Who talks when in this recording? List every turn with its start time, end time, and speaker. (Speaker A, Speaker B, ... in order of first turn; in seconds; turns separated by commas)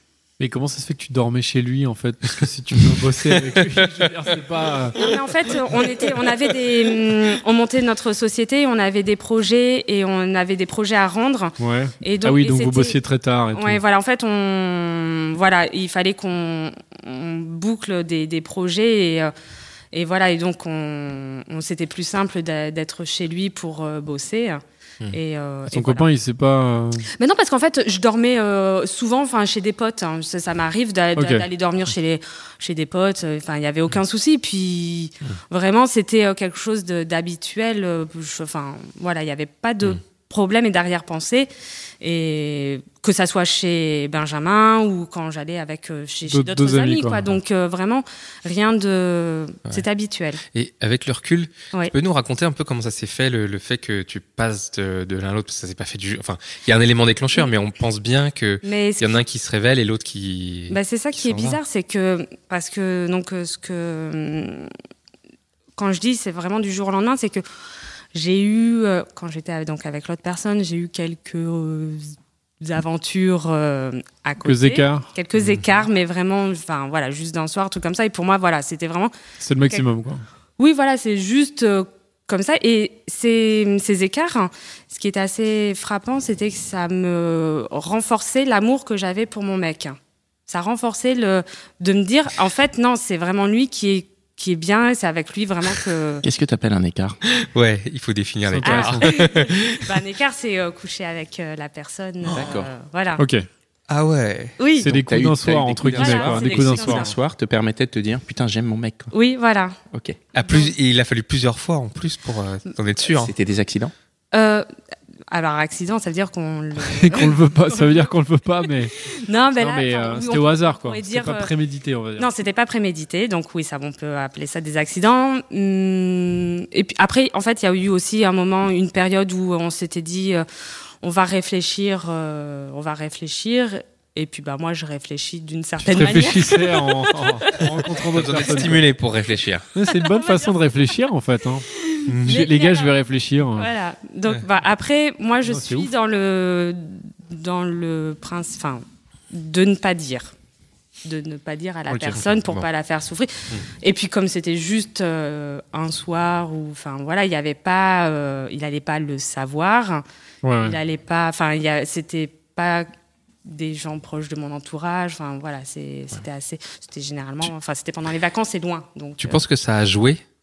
Speaker A: 0.4-5.0, Speaker B: 4.9-13.0, Speaker A: 11.6-13.8, Speaker B: 13.5-19.3, Speaker B: 19.9-26.1, Speaker A: 25.7-27.1, Speaker B: 27.1-41.5, Speaker A: 31.1-31.5, Speaker B: 42.0-50.4, Speaker A: 46.3-47.3, Speaker C: 50.5-61.6, Speaker B: 58.6-59.2, Speaker B: 60.7-64.7, Speaker B: 65.8-67.4, Speaker B: 68.1-79.1, Speaker A: 74.4-75.1, Speaker A: 79.4-80.2, Speaker B: 80.6-96.2, Speaker D: 96.2-97.2, Speaker C: 97.3-99.8, Speaker A: 98.5-99.1, Speaker B: 98.6-103.2, Speaker D: 102.3-102.7, Speaker A: 103.2-103.5, Speaker C: 103.9-104.6, Speaker B: 104.6-104.9, Speaker A: 104.8-107.1, Speaker D: 104.8-109.1, Speaker B: 105.9-107.1, Speaker B: 109.1-109.8, Speaker D: 109.9-110.2, Speaker C: 110.3-113.3, Speaker B: 110.4-110.7, Speaker D: 113.1-113.9, Speaker B: 114.3-114.7, Speaker B: 115.3-118.1, Speaker A: 116.9-119.0, Speaker B: 119.0-121.5, Speaker A: 119.6-122.3, Speaker B: 122.2-130.4, Speaker B: 131.0-138.7, Speaker A: 135.8-138.8, Speaker C: 137.6-139.7, Speaker A: 139.7-141.7, Speaker B: 139.9-140.5, Speaker B: 141.7-143.0, Speaker C: 142.1-142.4, Speaker A: 142.2-143.7, Speaker B: 143.5-150.3, Speaker A: 145.4-145.9, Speaker B: 151.0-160.0, Speaker C: 151.9-152.7, Speaker A: 160.4-160.8, Speaker B: 160.6-162.9, Speaker B: 163.4-169.4, Speaker C: 169.2-170.2